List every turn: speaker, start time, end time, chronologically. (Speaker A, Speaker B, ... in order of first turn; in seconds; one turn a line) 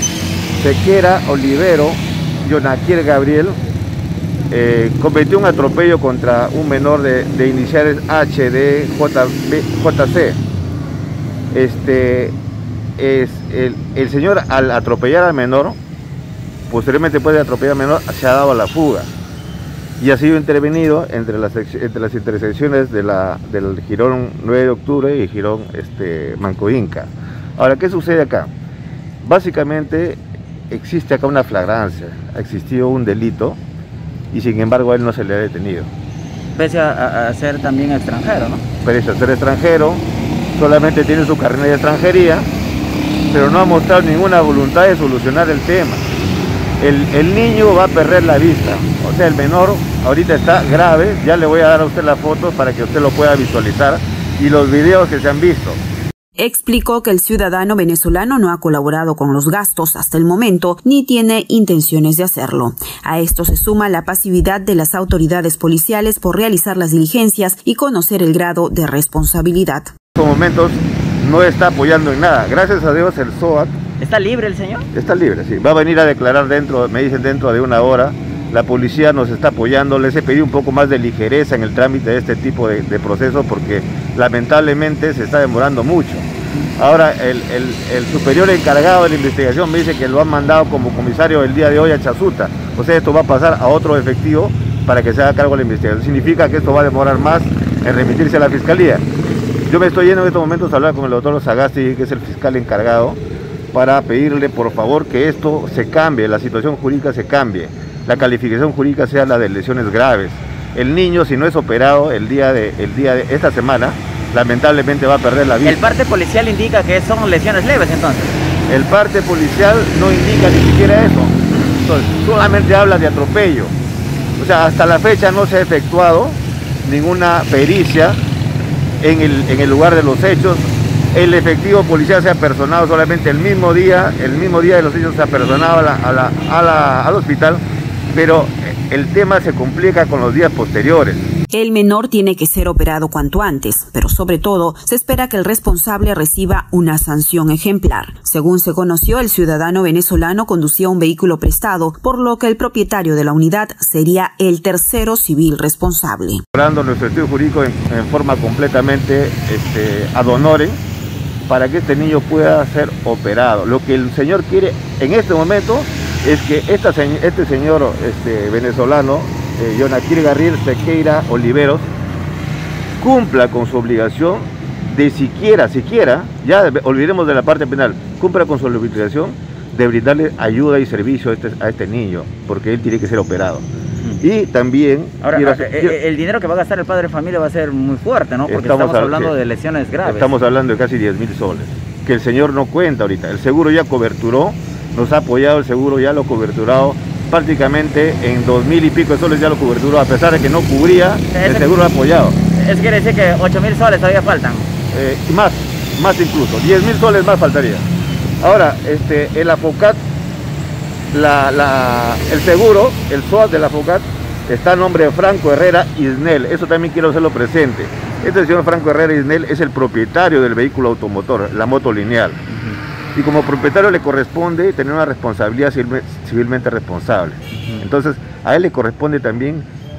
Speaker A: 0.6-3.6
Speaker A: 4.5-10.4
Speaker A: 11.5-12.4
Speaker A: 13.0-15.8
Speaker A: 16.7-19.1
Speaker A: 20.0-28.5
Speaker A: 29.2-30.2
Speaker A: 30.7-33.6
Speaker A: 34.3-35.9
Speaker B: 36.6-38.6
Speaker A: 38.8-40.0
Speaker A: 40.5-42.5
Speaker A: 43.3-46.0
Speaker A: 46.8-55.8
Speaker C: 56.4-69.9
Speaker A: 70.2-73.8
Speaker B: 74.0-74.9
Speaker A: 74.9-99.0
Speaker A: 99.7-103.2
Speaker A: 103.7-115.9
Speaker B: 115.6-118.4
Speaker A: 118.7-123.7
Speaker A: 124.4-128.2
Speaker A: 129.0-141.3
Speaker C: 141.5-156.4
Speaker A: 156.5-160.8
Speaker A: 161.5-171.9
Speaker A: 173.0-183.7
Speaker A: 184.2-185.9
Speaker B: 185.2-190.3
Speaker A: 188.5-189.3
Speaker A: 190.1-202.4
Speaker B: 201.3-201.7
Speaker B: 202.5-204.7
Speaker A: 204.9-207.9
Speaker A: 208.4-210.0
Speaker A: 211.1-222.4
Speaker A: 223.2-229.7